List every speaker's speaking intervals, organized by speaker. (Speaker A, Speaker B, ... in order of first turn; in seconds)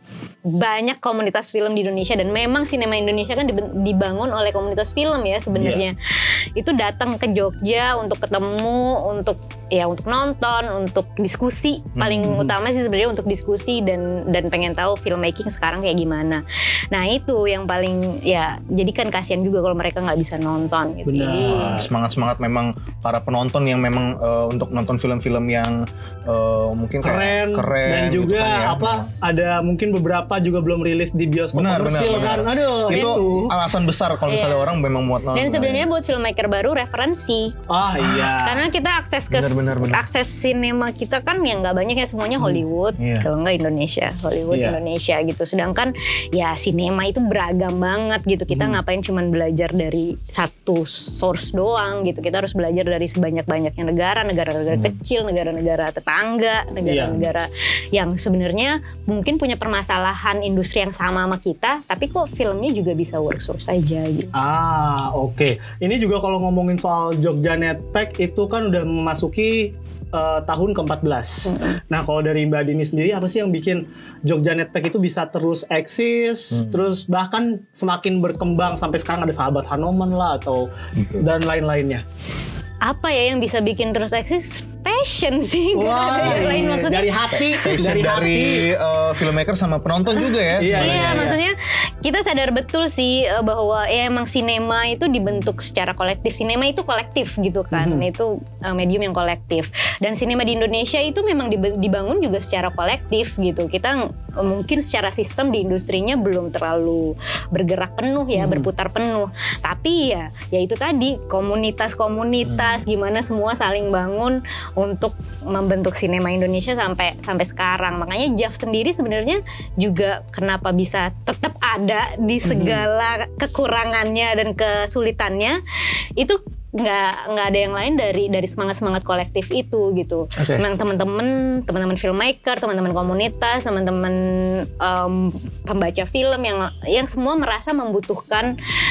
Speaker A: 0.5-6.0, 6.5-21.8, 32.0-33.2, 34.3-34.8, 35.3-64.3, 71.5-71.8, 82.8-88.1, 90.2-125.6, 126.2-138.5
Speaker B: 5.5-5.8, 21.1-21.9, 27.0-33.5, 37.7-38.6, 44.5-44.8, 56.8-57.3, 64.3-80.7, 81.2-82.0, 85.7-88.7, 90.6-91.4, 97.7-98.1, 108.3-108.7, 122.4-122.8, 130.4-130.6
Speaker C: 12.0-12.5, 21.4-29.1, 31.5-35.9, 39.3-40.0, 43.0-43.3, 76.5-76.8, 81.0-81.3, 86.2-86.7, 87.6-91.3